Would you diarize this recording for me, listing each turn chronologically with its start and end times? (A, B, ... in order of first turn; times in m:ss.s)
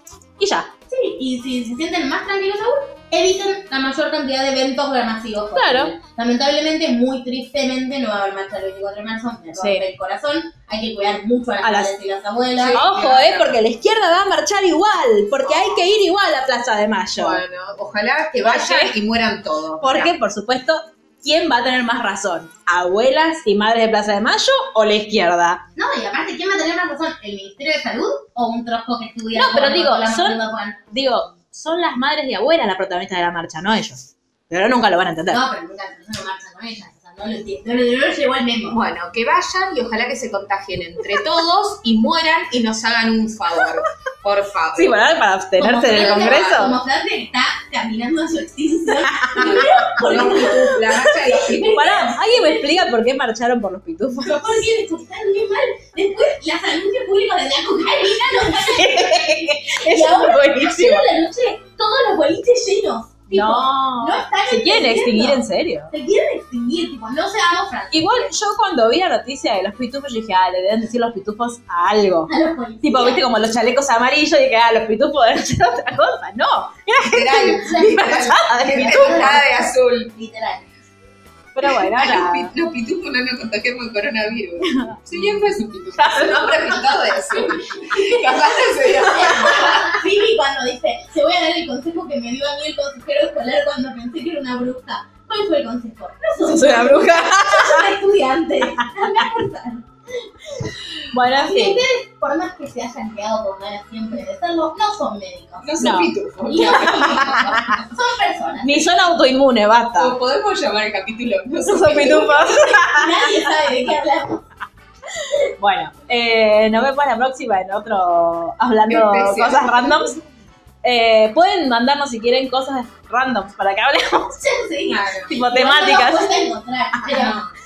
0:00.4-0:00.7 A
0:00.9-0:12.9 B
0:05.5-0:05.9 A
0:09.6-0:09.8 A
0:11.6-0:12.0 A
0:12.6-0:13.6 C
0:12.7-0:17.4 A
0:17.2-0:20.1 C
0:18.4-0:19.0 A
0:19.8-0:25.6 A
0:25.8-0:30.8 B
0:29.3-0:30.4 A
0:30.9-0:35.4 A
0:35.3-0:38.8 B
0:38.7-0:45.0 C
0:44.7-0:46.8 A
0:45.6-0:52.7 B
0:45.9-0:46.8 C
0:49.1-0:49.7 A
0:49.4-0:51.9 C
0:50.2-0:51.1 A
0:51.6-0:54.7 A
0:54.2-1:08.3 B
0:58.4-1:01.1 A
1:03.3-1:05.9 A
1:07.9-1:12.3 A
1:12.3-1:13.2 B
1:12.8-1:19.5 A
1:17.0-1:20.1 C
1:17.6-1:19.5 B
1:20.1-1:20.6 B
1:21.6-1:22.5 A
1:21.6-1:30.0 C
1:24.6-1:27.0 A
1:27.7-1:45.7 B
1:36.4-1:37.9 A
1:38.8-1:39.3 A
1:41.1-1:41.8 A
1:45.6-1:47.6 C
1:45.8-1:46.2 A
1:46.4-1:48.9 B
1:46.7-1:47.8 A
1:48.6-1:50.2 A
1:50.0-1:52.5 C
1:51.6-1:53.7 A
1:52.7-1:54.4 B
1:55.6-2:00.2 A
1:58.9-2:00.0 C
2:00.8-2:04.4 A
2:04.4-2:07.4 B
2:04.9-2:05.3 C
2:05.3-2:06.4 A
2:07.1-2:07.5 C
2:07.1-2:07.4 A